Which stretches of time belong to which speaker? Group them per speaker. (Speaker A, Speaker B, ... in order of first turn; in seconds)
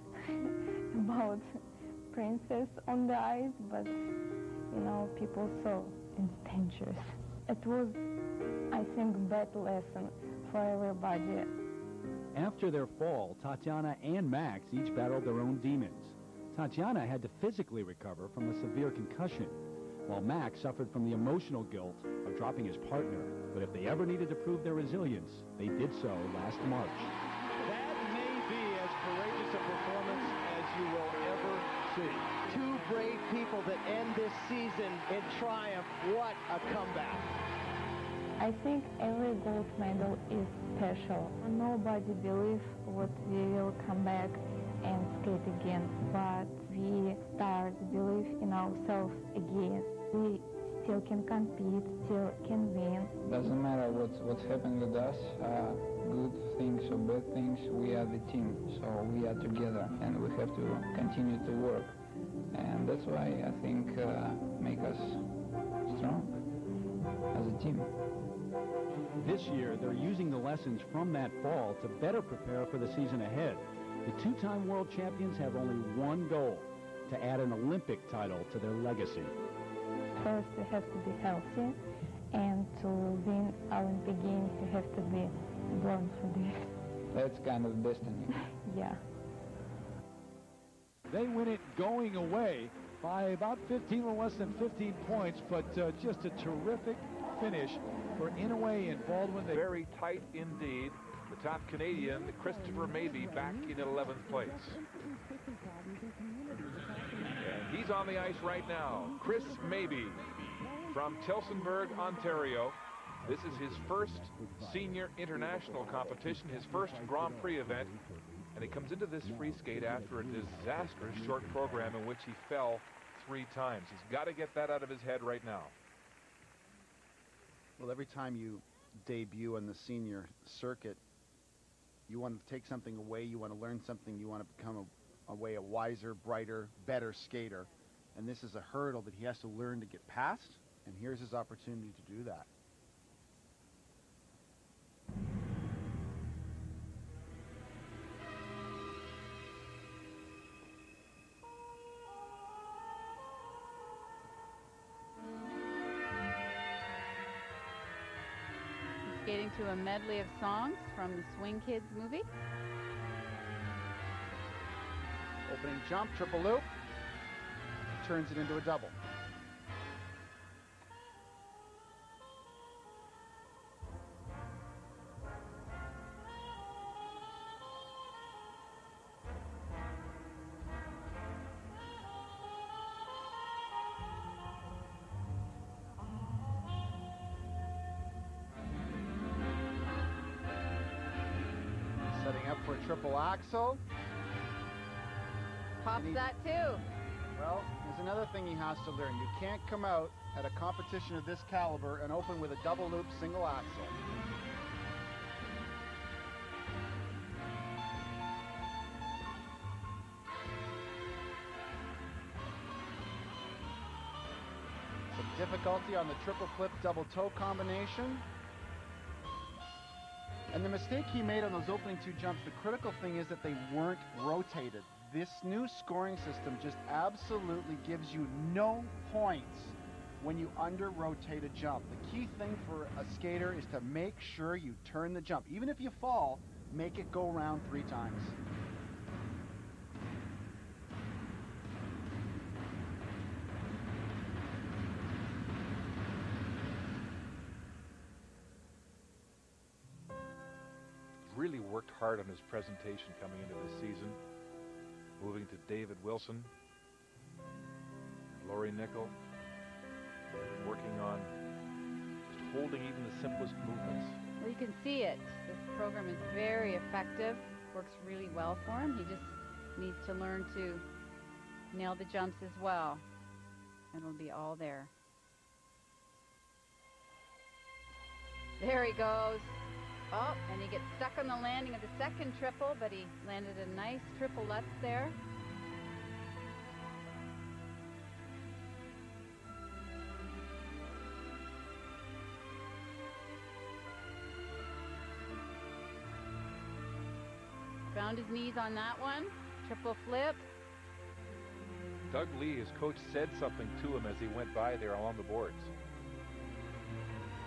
Speaker A: 0.1-4.0, 4.7-8.1, 8.7-11.5, 38.4-53.2, 80.2-86.7, 88.5-89.0
Speaker B: 12.3-32.4, 69.2-79.3, 91.1-99.6
Speaker C: 32.5-37.3
Speaker D: 53.2-62.0, 62.5-65.3, 65.9-66.5, 67.3-67.9, 87.1-88.3
Speaker E: 99.5-104.8, 107.4-110.2, 110.9-118.0, 118.5-125.7, 251.2-254.2, 255.2-256.5, 258.3-259.1, 260.5-261.3, 262.3-264.2, 302.1-305.7
Speaker F: 127.8-131.0, 132.1-142.5, 165.5-166.7, 168.0-168.9, 192.1-193.8, 195.9-196.2, 197.4-204.0, 215.1-218.2, 220.5-238.3
Speaker G: 159.0-162.3, 195.8-196.8, 264.4-270.9, 271.7-273.0, 273.9-274.9, 278.6-285.2, 297.9-300.5